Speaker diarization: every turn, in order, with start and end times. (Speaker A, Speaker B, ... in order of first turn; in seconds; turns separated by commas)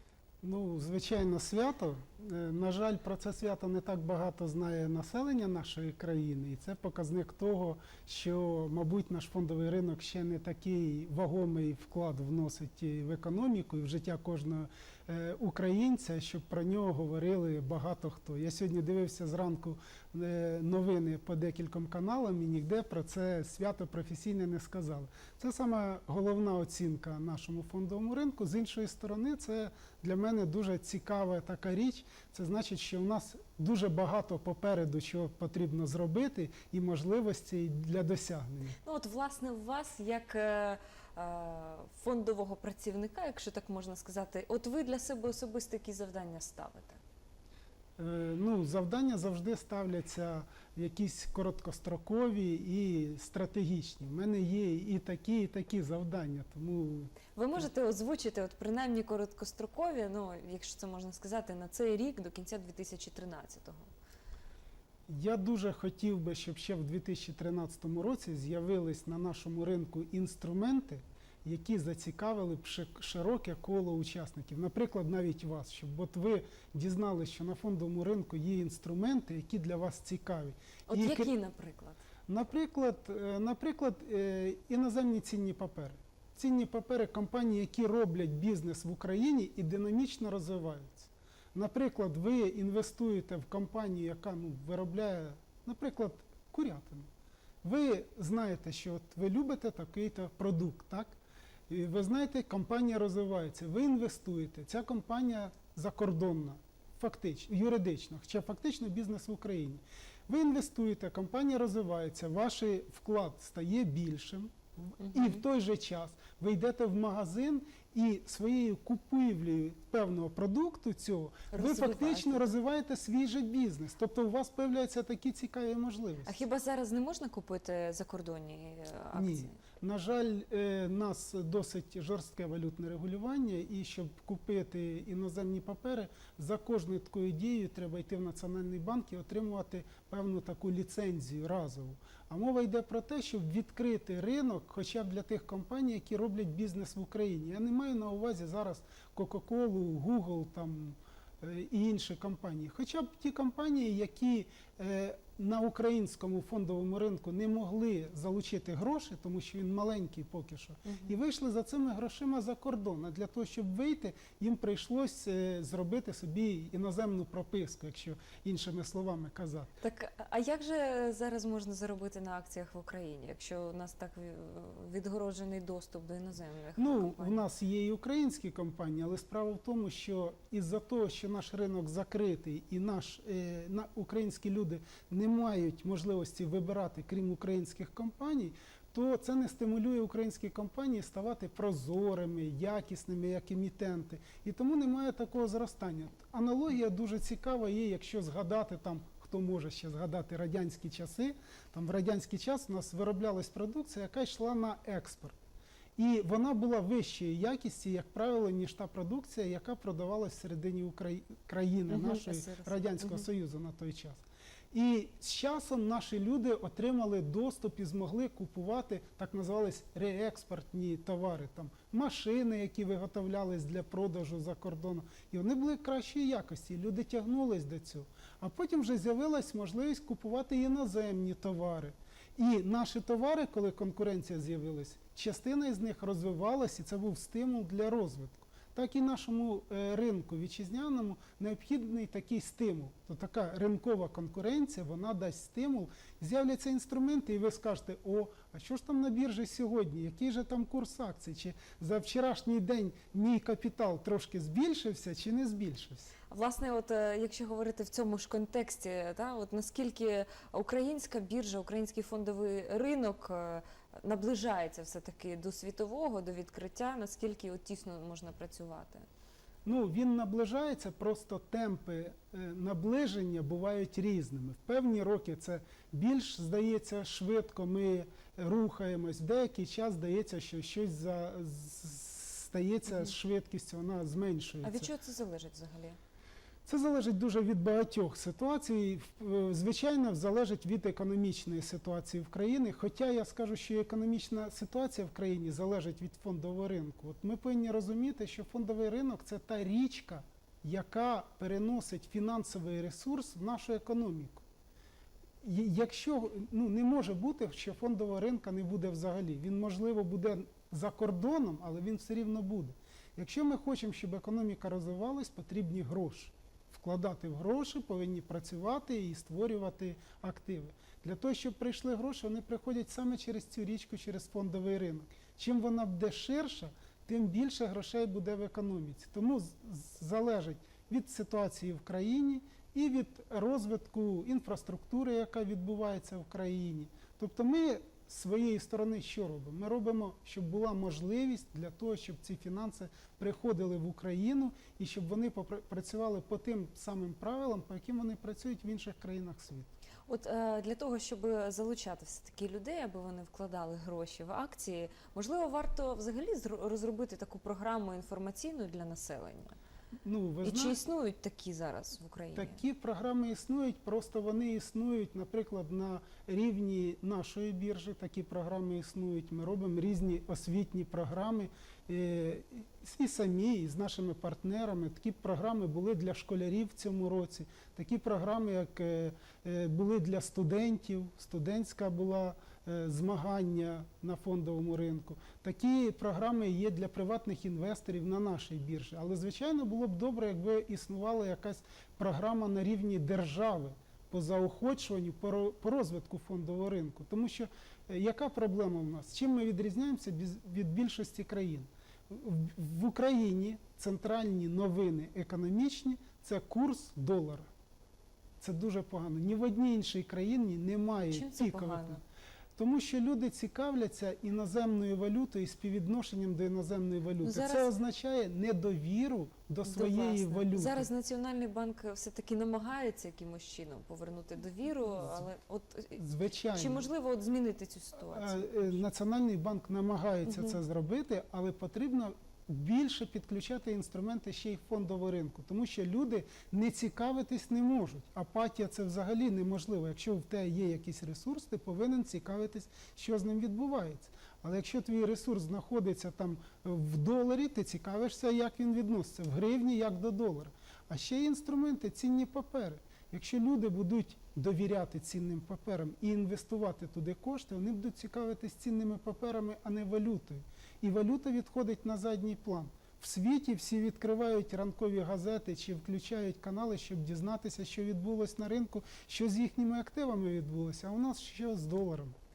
Speaker A: 0.4-38.8, Speaker B: 38.8-47.0, Speaker A: 48.0-57.7, Speaker B: 57.3-63.9, Speaker A: 65.1-81.3, Speaker B: 80.9-82.0, Speaker A: 82.3-97.1, Speaker A: 97.6-101.2, Speaker A: 101.7-126.4, Speaker B: 115.0-115.4, Speaker B: 121.5-122.5, Speaker B: 126.2-129.6, Speaker A: 129.1-169.7, Speaker B: 160.8-161.2, Speaker B: 169.8-177.5, Speaker A: 176.8-205.3, Speaker A: 206.0-256.1, Speaker B: 211.9-213.2, Speaker B: 256.3-269.1, Speaker A: 269.6-284.9, Speaker B: 284.6-286.0, Speaker A: 286.6-304.4, Speaker A: 305.4-349.7, Speaker B: 350.1-359.5, Speaker A: 360.0-360.8, Speaker B: 360.4-362.6, Speaker A: 362.3-407.5, Speaker A: 408.4-412.0, Speaker B: 411.1-412.0, Speaker A: 412.6-420.9, Speaker B: 417.2-417.7, Speaker B: 419.6-428.8, Speaker A: 426.0-426.9, Speaker A: 428.1-472.1, Speaker B: 430.2-430.6